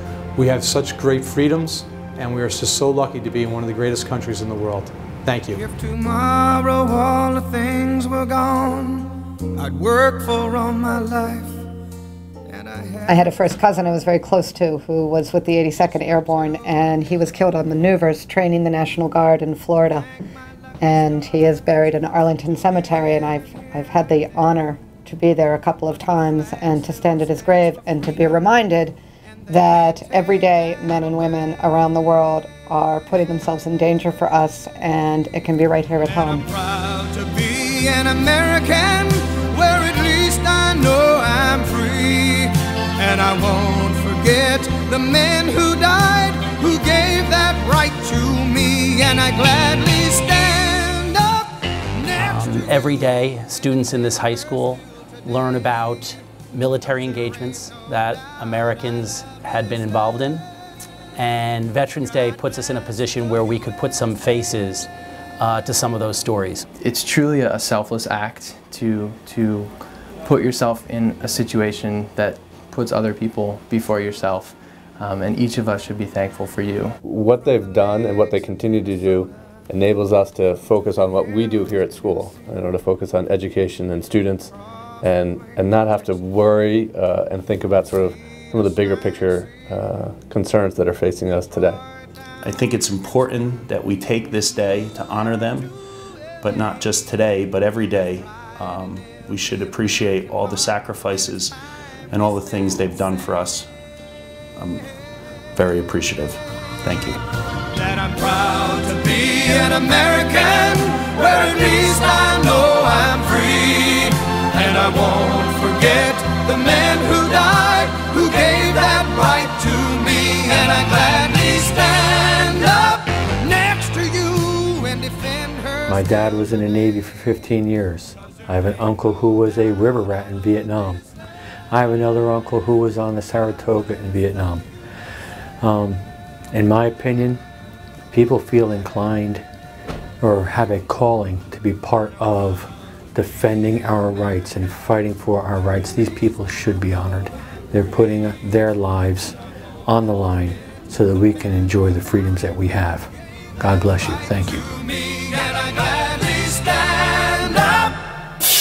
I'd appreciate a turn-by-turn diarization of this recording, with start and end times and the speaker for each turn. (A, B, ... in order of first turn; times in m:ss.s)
0:00.4-0:05.6 A
0:05.5-0:11.6 B
0:12.5-0:13.3 B
0:13.1-0:20.1 C
0:20.8-0:29.0 C
0:29.5-0:36.5 C
0:36.3-0:52.7 B
0:52.2-1:00.5 D
1:01.2-1:06.7 D
1:06.8-1:17.0 E
1:17.0-1:31.8 F
1:32.4-1:35.7 G
1:36.4-1:41.6 G
1:42.1-1:43.7 G
1:44.6-1:44.8 G
1:45.6-1:47.2 G
1:47.7-2:06.0 B
2:05.9-2:11.0 H
2:11.7-2:14.6 H
2:15.6-2:17.4 H
2:18.1-2:19.4 H
2:20.2-2:34.7 H
2:34.8-2:38.0 B